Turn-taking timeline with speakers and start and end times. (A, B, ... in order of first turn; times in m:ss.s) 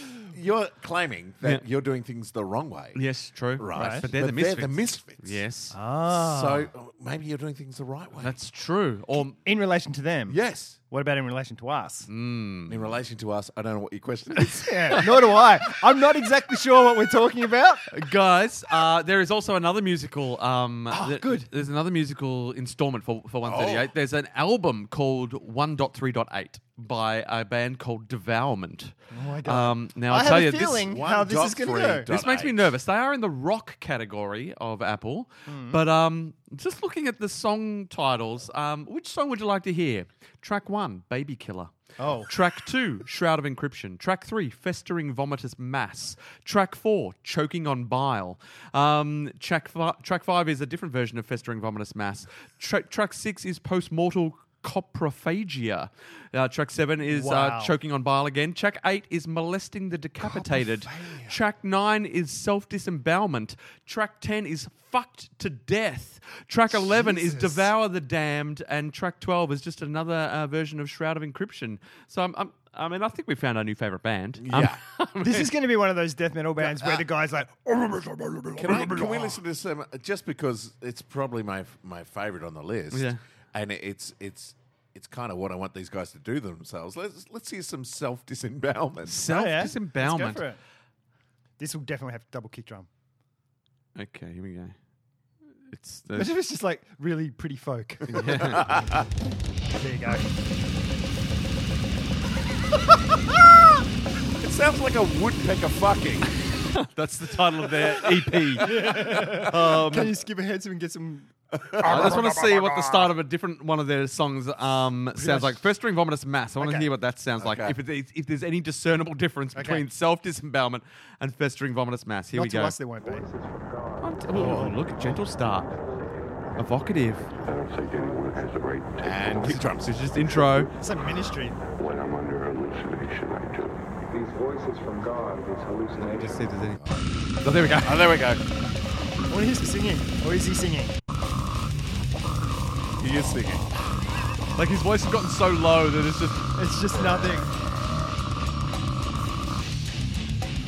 0:00.2-0:03.0 A
0:02.9-0:05.8 B
0:03.6-0:05.4 A
0:03.7-0:04.1 C
0:05.7-0:06.7 C
0:06.1-0:08.3 A
0:08.2-0:09.4 B
0:09.4-0:10.4 C
0:10.3-0:10.8 A
0:10.9-0:12.1 C
0:12.1-0:12.8 B
0:12.7-0:15.0 A
0:14.5-0:17.8 C
0:17.9-0:28.9 B
0:20.9-0:21.5 C
0:23.4-0:23.9 A
0:29.1-0:32.1 C
0:29.4-0:30.9 B
0:30.8-0:32.7 A
0:32.1-1:15.5 B
0:35.5-0:35.8 C
0:42.0-0:42.3 C
0:57.1-0:57.7 C
1:00.2-1:01.3 C
1:06.7-1:07.7 C
1:14.4-1:14.8 A
1:15.2-1:19.4 C
1:16.6-1:17.0 A
1:18.6-1:29.2 A
1:22.9-1:23.2 B
1:29.1-1:30.4 B
1:29.3-1:30.6 C
1:31.6-1:32.9 C
1:34.0-1:34.8 B
1:35.7-1:36.3 B
1:36.1-1:39.0 C
1:38.1-1:39.0 A
1:38.1-1:38.8 B
1:39.7-1:40.3 C
1:44.4-1:46.3 A
1:46.6-1:50.2 B
1:47.8-1:53.1 C
1:48.6-1:49.5 A
1:51.5-1:52.2 A
1:51.8-2:02.8 B
1:55.2-1:55.6 C
1:56.6-1:56.9 C
1:57.4-1:57.8 A
1:59.5-1:59.8 C
2:02.3-2:03.3 C
2:03.0-2:04.4 D
2:04.0-2:05.7 B
2:04.3-2:04.8 A
2:04.3-2:04.8 C
2:05.4-2:06.6 D
2:06.6-2:07.3 B
2:07.4-2:09.8 E
2:07.8-2:08.4 D
2:09.0-2:10.4 A
2:09.4-2:10.7 B
2:10.4-2:10.7 E
2:10.8-2:11.6 C
2:11.6-2:13.9 E
2:14.1-2:16.5 D
2:16.1-2:17.1 A
2:16.1-2:18.2 B
2:17.6-2:18.4 A
2:19.3-2:21.0 C
2:23.0-2:23.7 A
2:24.6-2:26.5 B
2:26.5-2:27.5 C